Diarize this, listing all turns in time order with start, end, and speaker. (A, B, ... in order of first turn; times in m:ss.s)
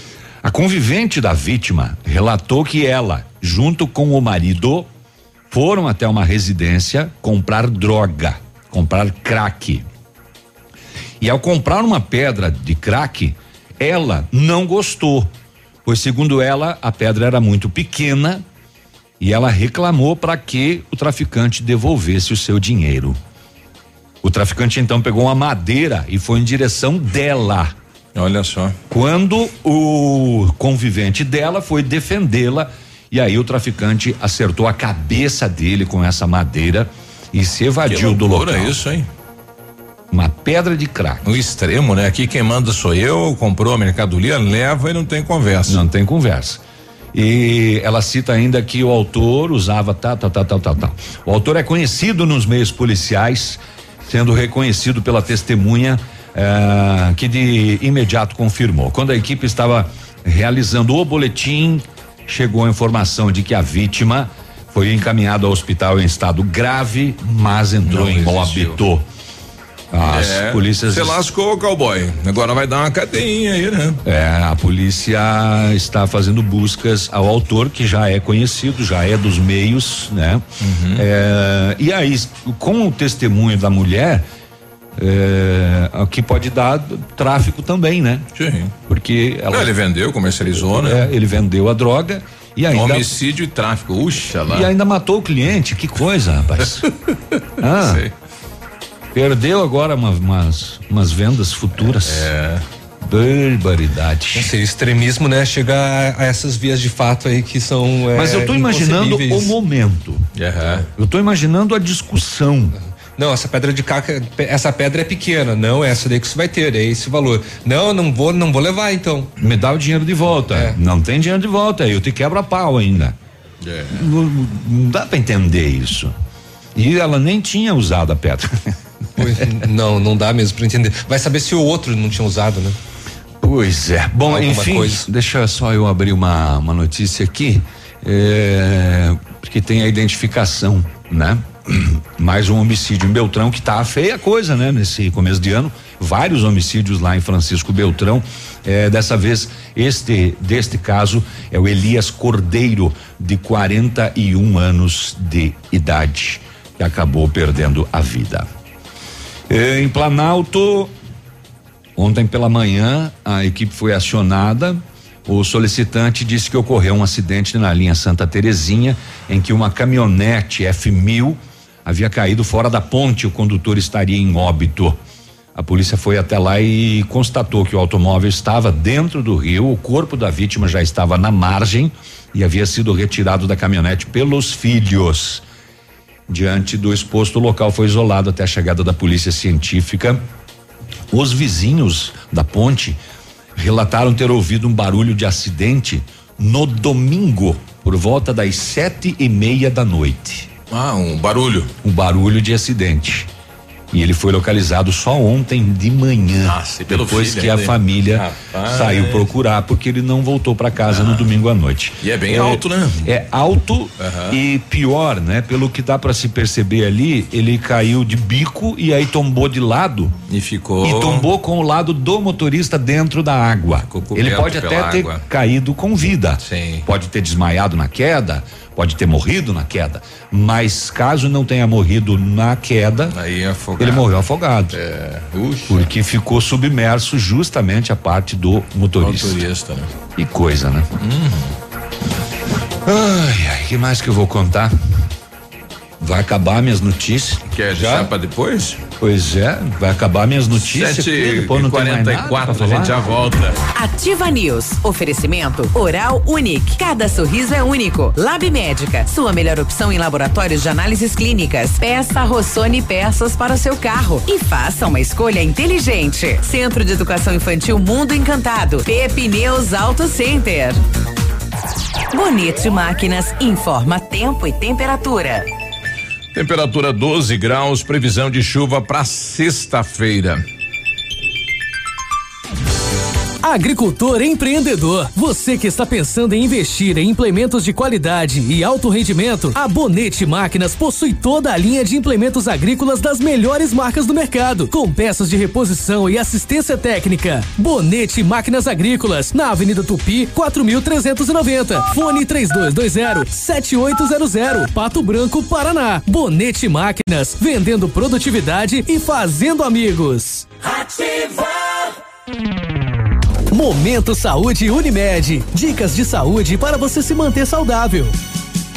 0:00.4-0:04.9 A
0:05.5-0:09.8 A
0:11.2-0:15.3 A
0:15.8-0:18.4 A
0:19.2-0:23.2 A
0:24.2-0:27.7 A
0:28.1-0:28.8 B
0:28.9-0:38.8 A
0:37.9-0:39.1 B
0:40.1-0:41.3 A
0:41.2-0:45.8 B
0:45.7-0:46.6 A
0:47.1-1:09.0 A
1:07.9-1:08.8 B
1:09.9-1:11.2 A
1:10.0-1:14.0 B
1:14.0-1:20.4 A
1:20.6-1:21.0 B
1:21.0-1:24.2 A
1:25.0-1:28.2 A
1:28.4-1:28.7 B
1:28.9-1:29.7 A
1:29.5-1:31.1 B
1:30.7-1:33.1 A
1:32.7-1:34.7 B
1:34.5-1:36.8 A
1:37.6-1:38.0 A
1:37.8-1:38.1 B
1:39.1-1:42.3 A
1:41.9-1:42.6 B
1:43.0-1:44.5 A
1:44.3-1:49.5 C
1:48.1-1:50.2 A
1:50.4-1:50.8 B
1:50.9-1:52.8 A
1:53.2-1:59.3 C
1:59.4-2:03.1 A
2:03.6-2:04.0 B
2:03.9-2:06.1 A
2:06.7-2:08.7 A
2:09.2-2:12.8 C
2:13.4-2:38.5 A
2:14.3-2:15.0 C
2:39.5-2:40.9 A
2:42.0-2:55.0 A
2:55.6-3:05.4 A
3:06.3-3:10.2 A
3:11.1-3:13.0 A
3:13.6-3:20.5 A
3:20.7-3:21.7 B
3:21.8-3:23.3 A
3:23.9-3:40.1 A
3:26.4-3:29.3 B
3:30.9-3:31.3 B
3:32.0-3:33.1 B
3:34.0-3:34.4 B
3:40.3-3:41.3 B
3:40.8-3:53.2 A
3:43.9-3:45.2 B
3:46.4-3:46.8 B
3:53.1-3:54.1 B
3:53.8-3:54.8 A
3:54.7-3:55.9 B
3:55.7-3:59.4 A
3:59.0-3:59.9 B
4:00.2-4:00.9 A
4:01.0-4:01.5 B
4:02.8-4:04.7 A
4:06.0-4:08.1 A
4:07.5-4:08.8 B
4:09.0-4:12.9 A
4:10.6-4:13.6 B
4:13.7-4:30.8 D
4:32.1-4:35.4 D
4:36.3-4:40.4 B
4:43.4-5:11.5 E
5:13.5-5:18.1 E